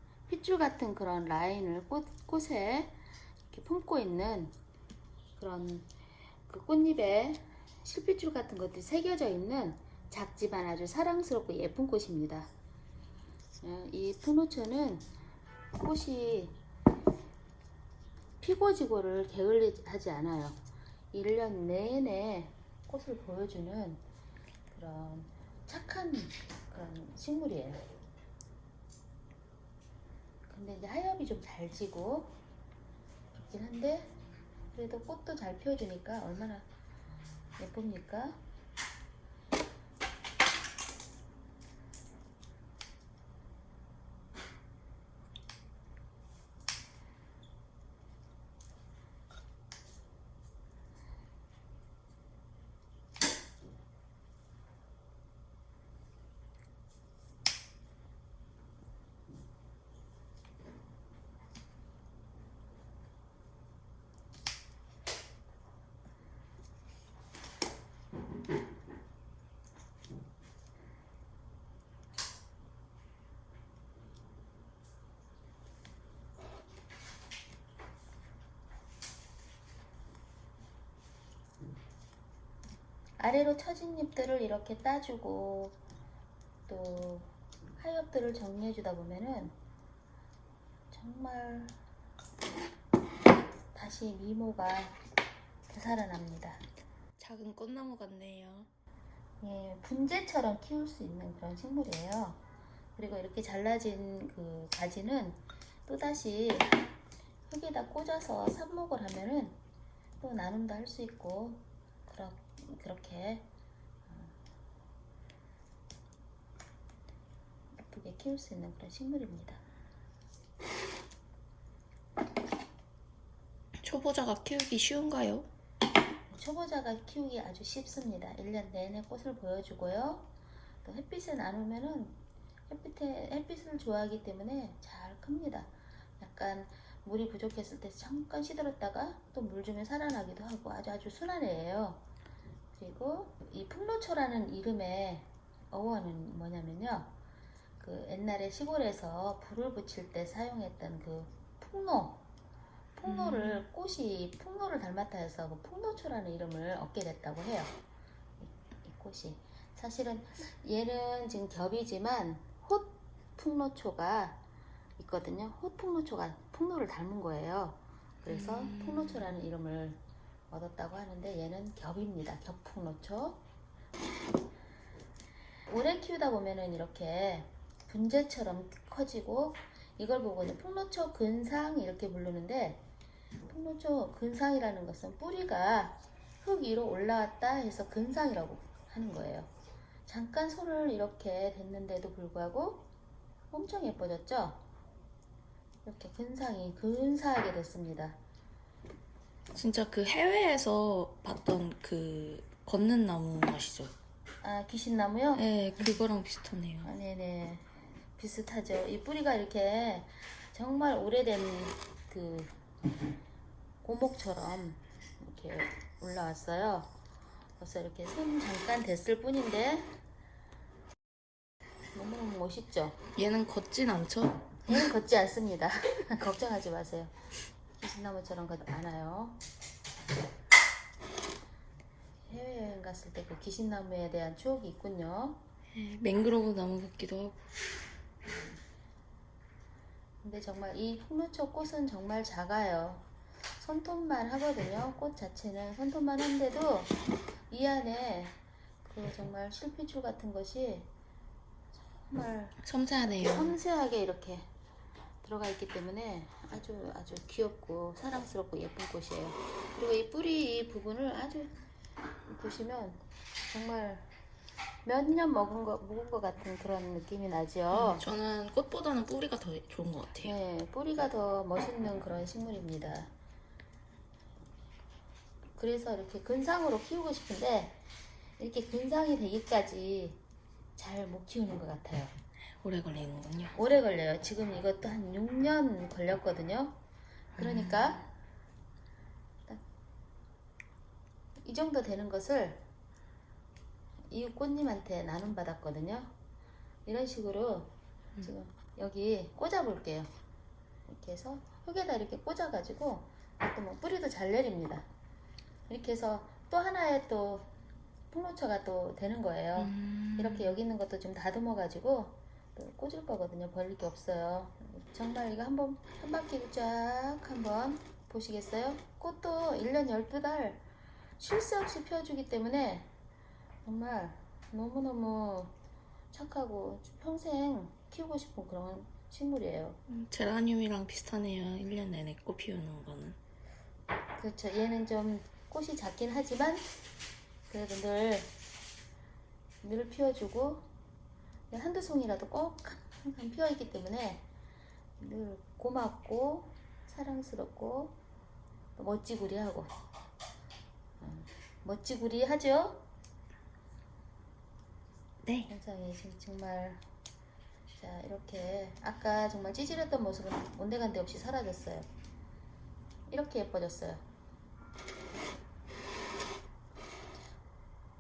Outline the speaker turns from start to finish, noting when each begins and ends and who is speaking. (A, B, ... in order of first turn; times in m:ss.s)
0:00.3-0:03.0 A
0:03.5-0:04.6 A
0:05.4-0:05.9 A
0:06.5-0:12.5 A
0:13.6-0:15.1 A
0:15.8-0:16.6 A
0:18.4-0:20.6 A
0:21.1-0:24.0 A
0:24.7-0:27.8 A
0:30.5-0:32.4 A
0:33.3-0:34.1 A
0:34.7-0:36.6 A
0:37.6-0:38.4 A
1:23.2-1:25.8 A
1:26.7-1:29.6 A
1:30.9-1:31.8 A
1:33.7-1:35.0 A
1:35.7-1:36.6 A
1:37.2-1:38.7 B
1:39.4-1:42.4 A
1:43.0-1:46.8 A
1:47.5-1:49.6 A
1:50.2-1:53.4 A
1:54.1-1:54.4 A
1:57.8-1:59.6 A
2:03.8-2:05.5 B
2:06.3-2:10.3 A
2:10.8-2:12.2 A
2:12.7-2:22.0 A
2:22.8-2:27.1 A
2:27.8-2:32.2 A
2:33.0-2:37.7 A
2:33.1-2:33.6 B
2:38.4-2:44.4 A
2:45.0-2:53.4 A
2:48.3-2:49.3 B
2:55.7-3:02.8 A
3:03.5-3:09.5 A
3:10.1-3:12.9 A
3:13.5-3:14.6 A
3:15.8-3:18.2 A
3:19.5-3:24.0 B
3:24.4-3:25.5 A
3:25.3-3:26.9 B
3:26.8-3:32.5 A
3:33.8-3:36.9 A
3:37.6-3:39.9 A
3:41.9-3:43.0 A
3:43.2-3:44.6 B
3:44.7-3:47.1 A
3:47.8-3:49.4 A
3:52.3-3:55.4 A
3:55.7-3:57.4 B
4:00.2-4:03.0 A
4:03.6-4:06.9 A
4:07.5-4:10.9 A
4:11.8-4:14.5 A
4:12.6-4:13.6 B
4:15.2-4:21.5 A
4:22.3-4:24.1 A
4:24.8-4:28.0 A
4:27.7-4:30.4 B
4:30.2-4:33.1 A
4:35.6-4:37.8 A
4:38.4-4:40.2 A
4:40.8-4:42.1 A
4:42.6-4:43.6 B
4:43.6-4:46.8 A
4:47.4-4:48.0 B
4:47.4-4:48.1 A
4:51.4-4:52.6 A
4:54.1-4:56.1 A
4:56.9-5:00.1 A
5:00.9-5:04.9 A
5:05.7-5:07.5 A
5:08.1-5:20.6 A
5:09.6-5:10.6 B
5:21.2-5:22.9 A
5:23.6-5:25.5 A
5:26.1-5:29.8 A
5:29.9-5:33.2 B
5:34.2-5:36.6 A
5:37.5-5:38.3 A
5:39.6-5:40.7 A
5:41.5-5:44.2 A
5:45.0-5:48.0 A
5:48.8-5:49.7 A
5:51.0-5:52.8 A
5:55.2-5:55.5 B
5:55.5-5:56.8 A
5:57.8-6:01.9 A
6:03.1-6:04.0 A